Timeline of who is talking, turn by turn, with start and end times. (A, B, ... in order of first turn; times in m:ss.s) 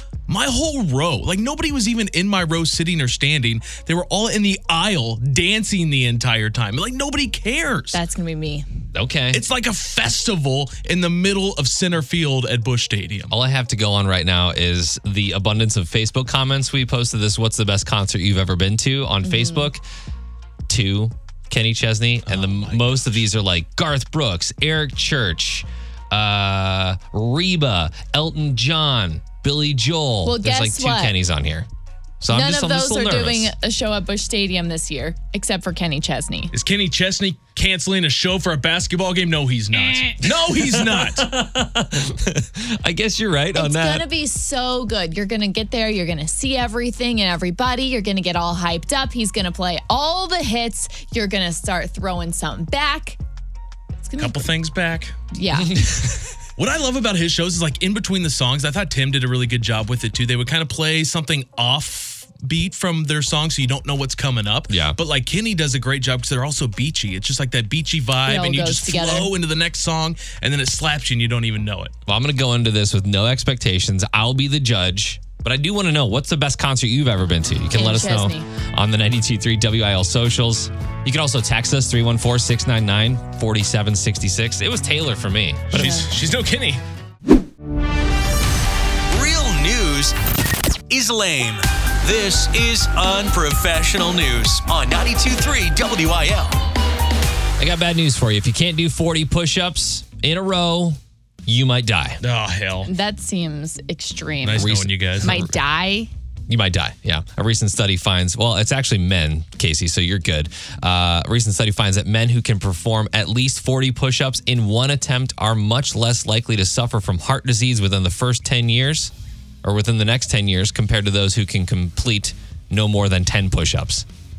0:00.3-0:08.0 A
0:07.9-0:08.7 B
0:08.9-0:09.4 C
0:09.3-0:13.4 A
0:13.3-0:19.8 C
0:19.2-0:19.7 B
0:20.7-0:31.7 C
0:22.2-0:23.1 A
0:30.2-0:31.2 B
0:32.2-0:33.5 C
0:32.3-0:36.5 B
0:36.5-0:41.3 A
0:39.8-0:44.0 C
0:43.5-0:53.2 B
0:54.0-0:54.5 B
0:54.2-0:55.2 A
0:55.3-0:55.8 B
0:55.6-0:56.3 C
0:56.6-1:12.0 A
1:04.7-1:05.0 C
1:08.2-1:09.3 B
1:12.1-1:26.0 C
1:17.7-1:18.5 B
1:25.7-1:26.8 A
1:25.7-1:26.1 B
1:29.1-1:30.2 D
1:30.9-1:36.6 D
1:37.6-1:42.2 C
1:42.2-1:42.9 A
1:42.9-1:46.1 B
1:44.4-1:45.4 A
1:44.6-1:45.5 C
1:46.5-1:59.1 C
1:59.6-2:04.0 C